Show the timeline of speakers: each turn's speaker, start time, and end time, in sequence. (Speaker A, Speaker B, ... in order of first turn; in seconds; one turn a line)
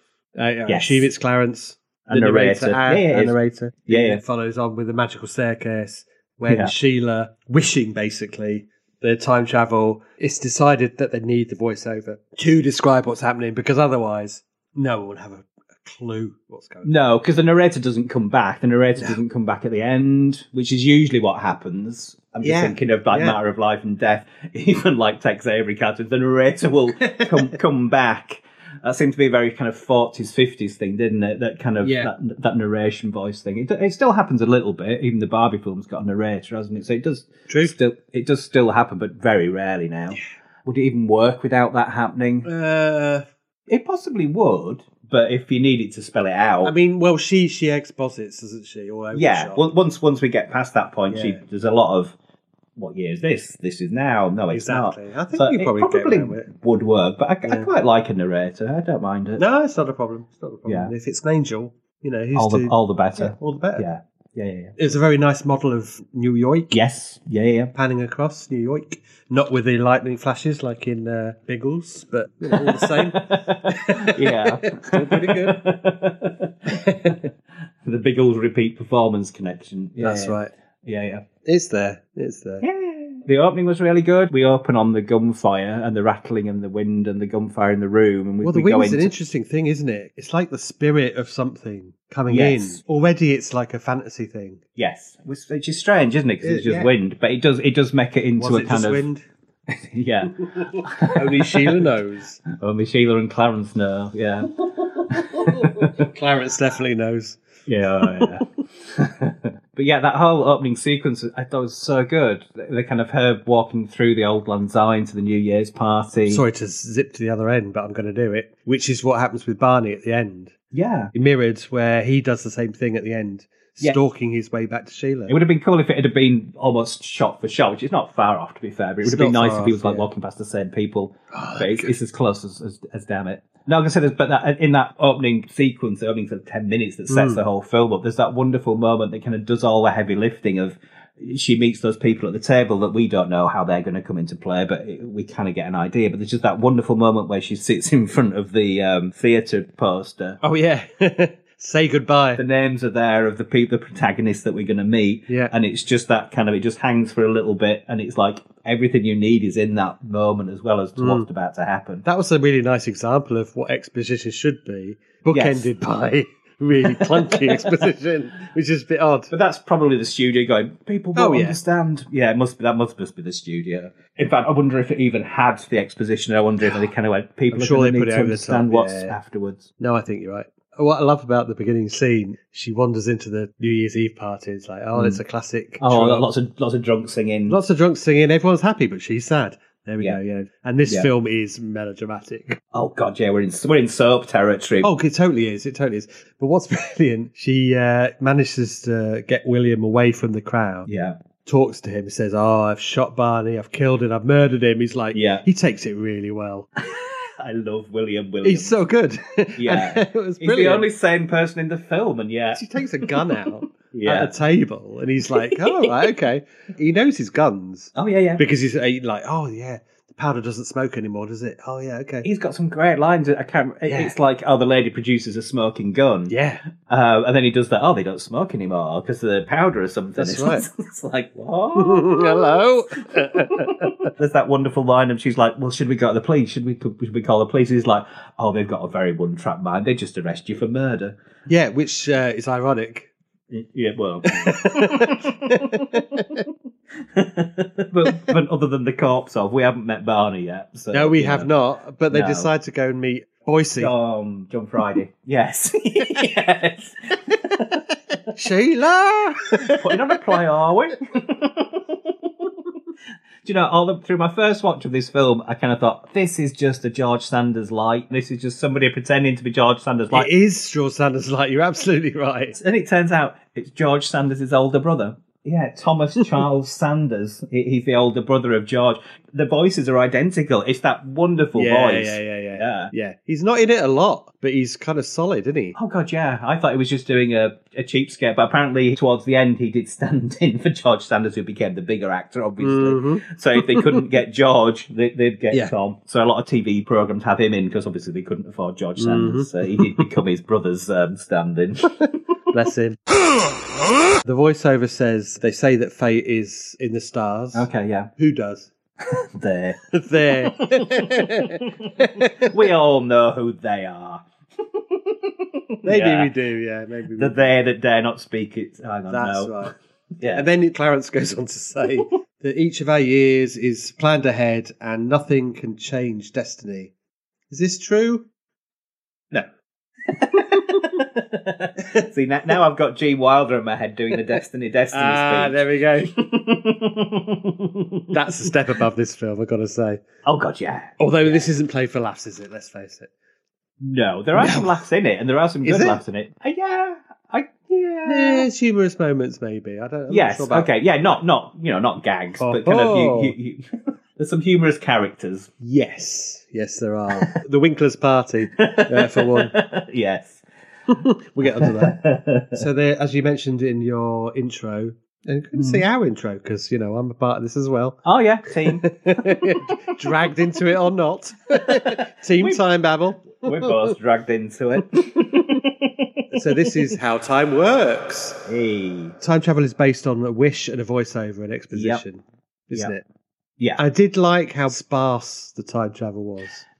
Speaker A: 0.4-16.9
Speaker B: 0.7-1.1
Speaker B: 2.1-4.2
Speaker B: 6.4-6.7
Speaker B: 16.8-42.5
Speaker A: 22.4-23.4
Speaker A: 27.0-27.5
Speaker A: 31.8-32.1
Speaker A: 37.5-37.7
Speaker A: 42.4-43.2
Speaker B: 43.7-46.7
Speaker A: 46.6-49.6
Speaker B: 49.1-52.1
Speaker A: 51.1-51.4
Speaker B: 52.8-59.4
Speaker A: 54.5-56.5
Speaker A: 59.4-63.9
Speaker B: 60.6-60.9
Speaker B: 62.3-64.8
Speaker A: 64.8-66.7
Speaker B: 66.7-67.7
Speaker A: 67.7-75.6
Speaker B: 72.5-77.2
Speaker A: 76.8-77.1
Speaker B: 77.8-81.2
Speaker A: 80.0-80.5
Speaker A: 81.4-82.6
Speaker B: 82.6-89.1
Speaker A: 88.4-94.6
Speaker B: 92.3-92.8
Speaker B: 94.8-99.0
Speaker A: 96.4-96.9
Speaker A: 98.4-99.2
Speaker B: 99.7-101.8
Speaker A: 100.6-102.4
Speaker B: 102.5-105.9
Speaker A: 105.1-107.4
Speaker B: 107.7-116.4
Speaker A: 108.0-108.4
Speaker A: 116.3-120.5
Speaker B: 120.7-121.1
Speaker A: 121.1-125.3
Speaker B: 125.3-150.4
Speaker A: 129.0-130.1
Speaker A: 131.3-131.9
Speaker A: 137.1-137.4
Speaker A: 150.4-152.4
Speaker B: 152.3-162.0
Speaker A: 161.0-161.3
Speaker A: 162.0-169.3
Speaker B: 165.3-165.7
Speaker B: 166.8-167.9
Speaker B: 169.3-179.7
Speaker A: 171.1-171.6
Speaker A: 177.5-179.2
Speaker A: 179.8-186.3
Speaker B: 184.9-185.2
Speaker B: 185.8-187.6
Speaker A: 187.5-192.6
Speaker B: 190.8-191.1
Speaker B: 192.7-194.9
Speaker A: 194.8-200.9
Speaker B: 200.8-201.2
Speaker A: 201.4-206.7
Speaker B: 205.1-205.4
Speaker B: 206.8-208.8
Speaker A: 208.4-210.9
Speaker B: 209.6-213.2
Speaker A: 212.5-222.3
Speaker B: 213.9-214.3
Speaker B: 215.3-216.1
Speaker B: 217.9-218.4
Speaker B: 222.2-232.6
Speaker A: 223.9-224.1
Speaker A: 226.3-226.6
Speaker A: 230.2-230.7
Speaker A: 231.8-234.1
Speaker B: 233.2-241.2
Speaker A: 241.5-243.1
Speaker B: 243.5-246.2
Speaker A: 244.2-246.4
Speaker B: 247.1-251.5
Speaker A: 250.9-253.9
Speaker B: 252.1-252.5
Speaker B: 253.8-257.8
Speaker A: 258.3-260.1
Speaker B: 259.6-262.5
Speaker B: 263.4-270.3
Speaker A: 270.1-272.6
Speaker B: 272.5-282.9
Speaker A: 281.5-285.8
Speaker B: 285.7-302.0
Speaker A: 292.6-294.0
Speaker A: 299.0-300.0
Speaker A: 302.5-303.0
Speaker A: 304.2-308.7
Speaker B: 307.5-308.1
Speaker B: 309.0-316.3
Speaker A: 309.9-312.5
Speaker A: 315.8-317.5
Speaker B: 317.1-320.5
Speaker A: 319.1-319.7
Speaker A: 320.3-326.9
Speaker A: 327.5-328.3
Speaker B: 330.1-338.5
Speaker A: 334.9-336.1
Speaker A: 338.1-340.0
Speaker B: 340.2-341.5
Speaker A: 341.0-343.1
Speaker B: 343.8-348.4
Speaker A: 344.4-344.7
Speaker A: 345.6-346.0
Speaker A: 348.1-350.7
Speaker B: 350.1-355.5
Speaker A: 352.4-353.4
Speaker A: 355.6-359.6
Speaker B: 358.5-360.4
Speaker A: 360.9-368.0
Speaker B: 361.4-362.6
Speaker B: 365.5-365.9
Speaker B: 368.0-369.4
Speaker A: 368.5-373.7
Speaker B: 370.1-370.3
Speaker B: 371.6-372.6
Speaker B: 373.3-376.9
Speaker A: 376.3-378.4
Speaker B: 378.4-379.1
Speaker A: 379.2-383.0
Speaker B: 381.7-382.0
Speaker A: 383.8-386.6